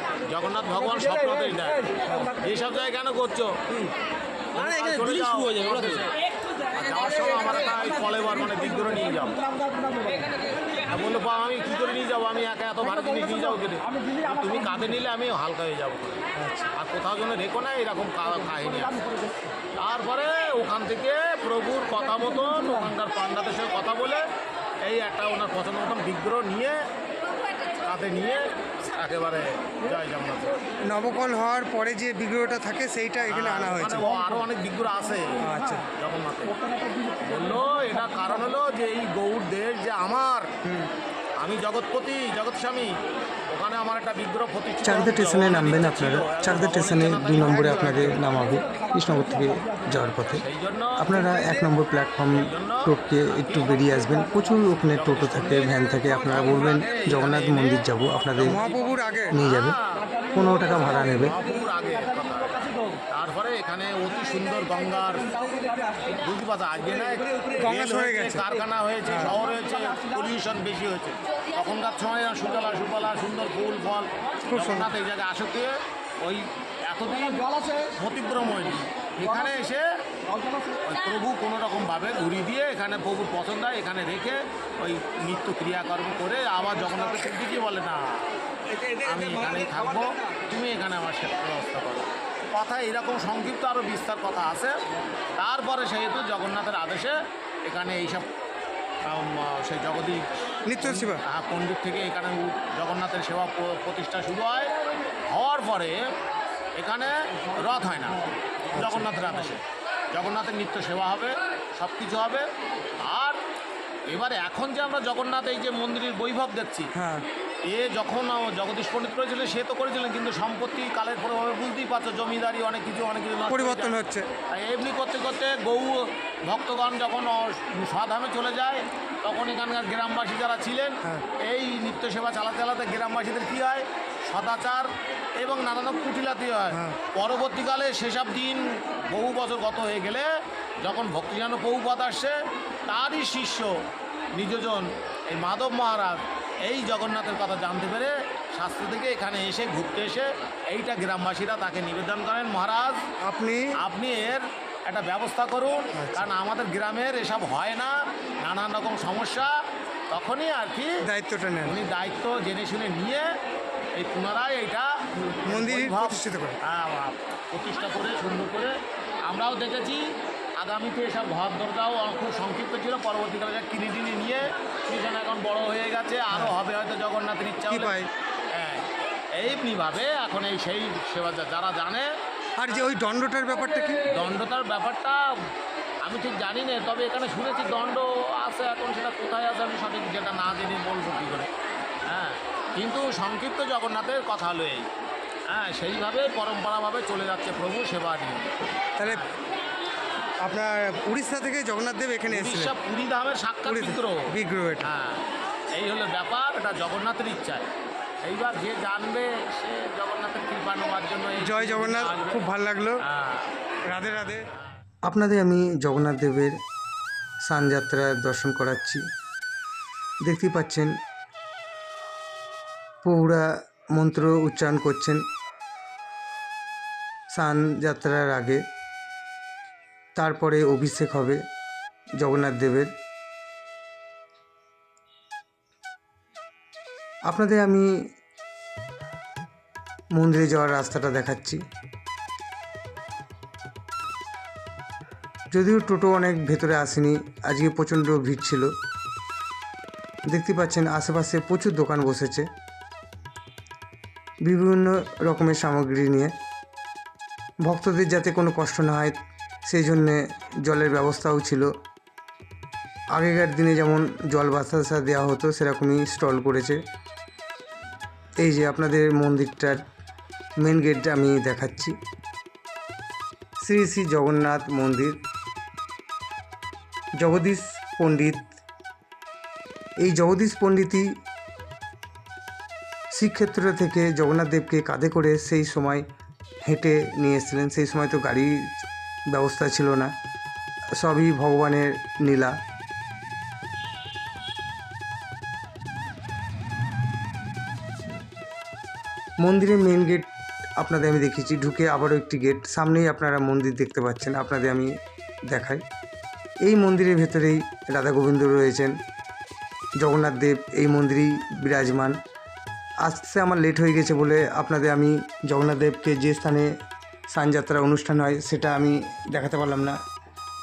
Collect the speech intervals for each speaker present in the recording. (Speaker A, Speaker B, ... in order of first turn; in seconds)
Speaker A: 0.3-3.9, 4.5-6.1, 6.7-9.5, 10.8-19.2, 19.8-24.2, 24.8-26.8, 27.8-30.6, 33.2-36.6, 37.1-40.5, 41.4-43.0, 43.5-48.3, 50.4-51.2, 52.3-52.9, 54.8-60.1, 61.1-65.4, 66.0-79.8, 80.7-88.4, 88.9-94.8, 95.3-98.3, 99.0-106.0, 106.8-112.5, 113.0-113.4, 114.1-116.9, 117.7-140.3, 140.8-142.3, 142.9-143.7, 144.3-153.1, 153.8-159.5, 160.1-161.0, 161.6-163.3, 163.9-170.0, 170.6-182.1, 184.0-185.2, 186.0-191.5, 192.1-194.9, 195.5-199.3, 202.3-204.3, 204.8-207.7, 208.2-212.5, 213.0-213.5
Speaker B: 30.9-34.0, 44.8-50.4, 51.0-59.8, 60.3-61.4, 74.5-74.9, 100.7-101.2, 116.9-117.2, 123.5-124.3, 153.2-153.7, 161.0-161.8, 165.5-166.6, 177.7-178.1, 182.6-184.0, 200.4-202.6, 203.7-204.9, 211.8-213.0, 215.1-216.5, 217.4-219.0, 220.2-220.9, 223.0-225.2, 227.3-228.6, 230.2-231.4, 232.2-232.9, 237.3-237.9, 240.1-241.6, 245.5-248.7, 250.3-252.5, 254.4-256.3, 257.6-261.7, 263.1-266.8, 268.4-269.8, 270.6-271.9, 273.6-275.2, 277.2-278.5, 280.0-281.1, 283.1-286.0, 286.6-288.7, 289.3-290.1, 291.0-292.6, 299.4-304.9, 305.5-305.8, 306.6-308.9, 310.0-312.2, 313.0-316.7, 317.3-320.0
Speaker C: 35.5-35.8, 58.5-59.2, 67.8-68.4, 211.4-212.8, 213.9-214.3